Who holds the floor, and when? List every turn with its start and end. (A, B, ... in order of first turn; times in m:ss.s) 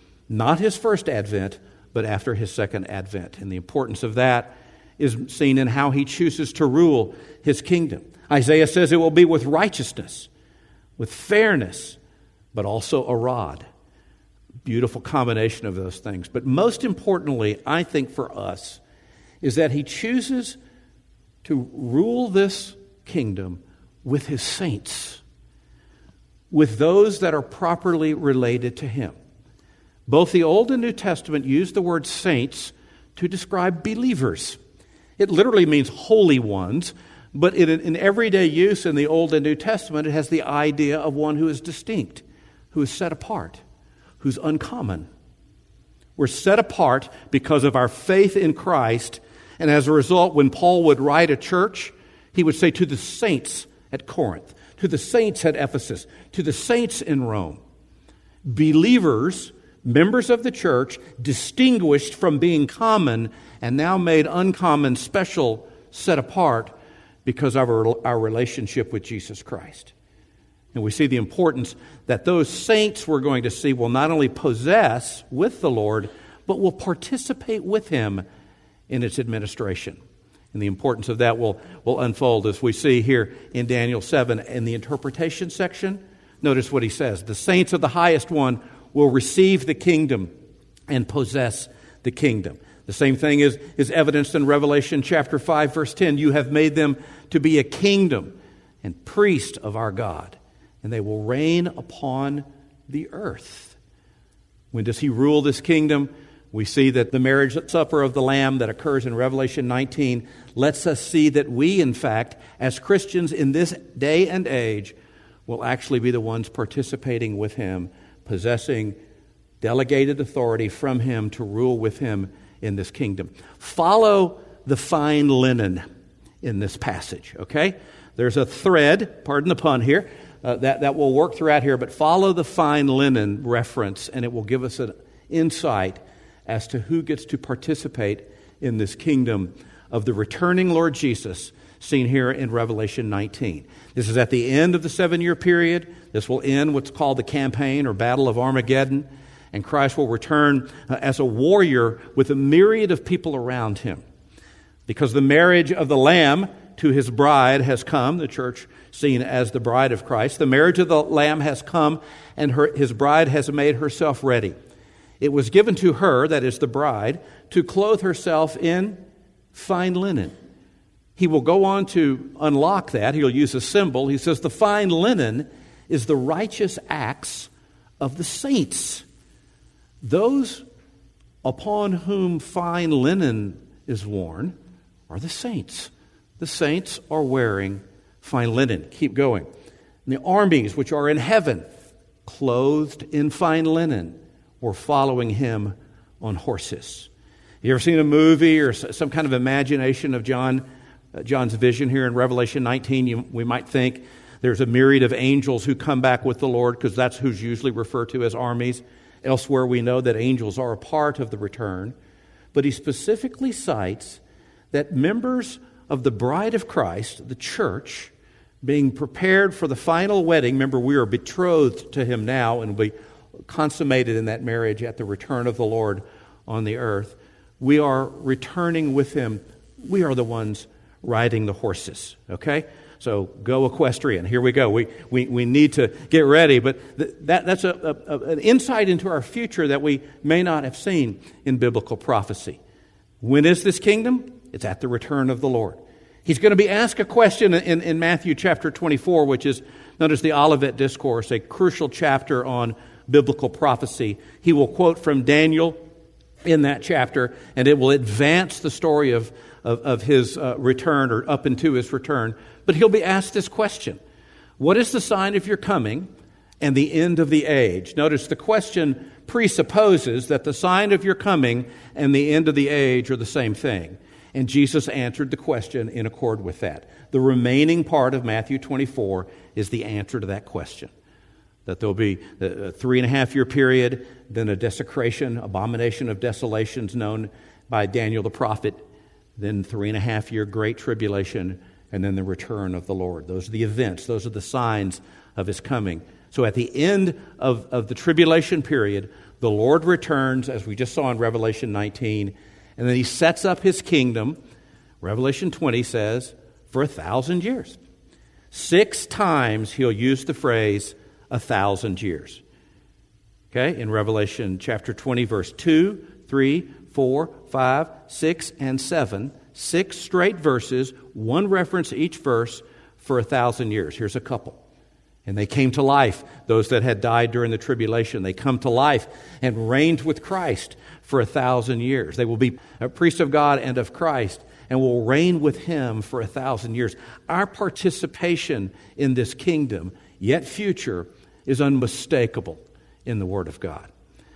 0:00.3-0:10.3 A
0:11.0-0:12.0 A
0:12.5-0:13.6 A
0:14.6-0:18.8 A
0:19.4-0:20.6 A
0:21.4-0:25.2 A
0:26.5-0:29.2 A
0:30.1-0:34.6 A
0:35.2-0:43.6 A
0:44.2-0:45.1 A
0:46.2-0:57.6 A
0:58.5-1:06.7 A
1:07.2-1:09.9 A
1:10.7-1:18.2 A
1:18.9-1:20.0 A
1:20.5-1:30.3 A
1:30.9-1:43.8 A
1:44.7-1:55.0 A
1:55.5-1:59.0 A
1:59.6-2:05.8 A
2:06.4-2:34.0 A
2:34.9-2:44.5 A
2:45.2-2:49.0 A
2:49.5-2:50.3 A
2:51.2-2:59.0 A
3:00.0-3:00.6 A
3:01.4-3:04.6 A
3:05.1-3:09.5 A
3:10.1-3:11.6 A
3:12.2-3:17.1 A
3:17.6-3:32.0 A
3:32.5-3:34.2 A
3:34.7-3:38.1 A
3:38.6-3:42.9 A
3:43.5-4:02.6 A
4:03.2-4:15.8 A
4:16.4-4:24.0 A
4:24.6-4:26.1 A
4:26.6-4:40.9 A
4:41.7-4:48.8 A
4:49.4-5:04.4 A
5:05.0-5:07.8 A
5:08.5-5:12.4 A
5:13.5-5:24.6 A
5:25.3-5:43.9 A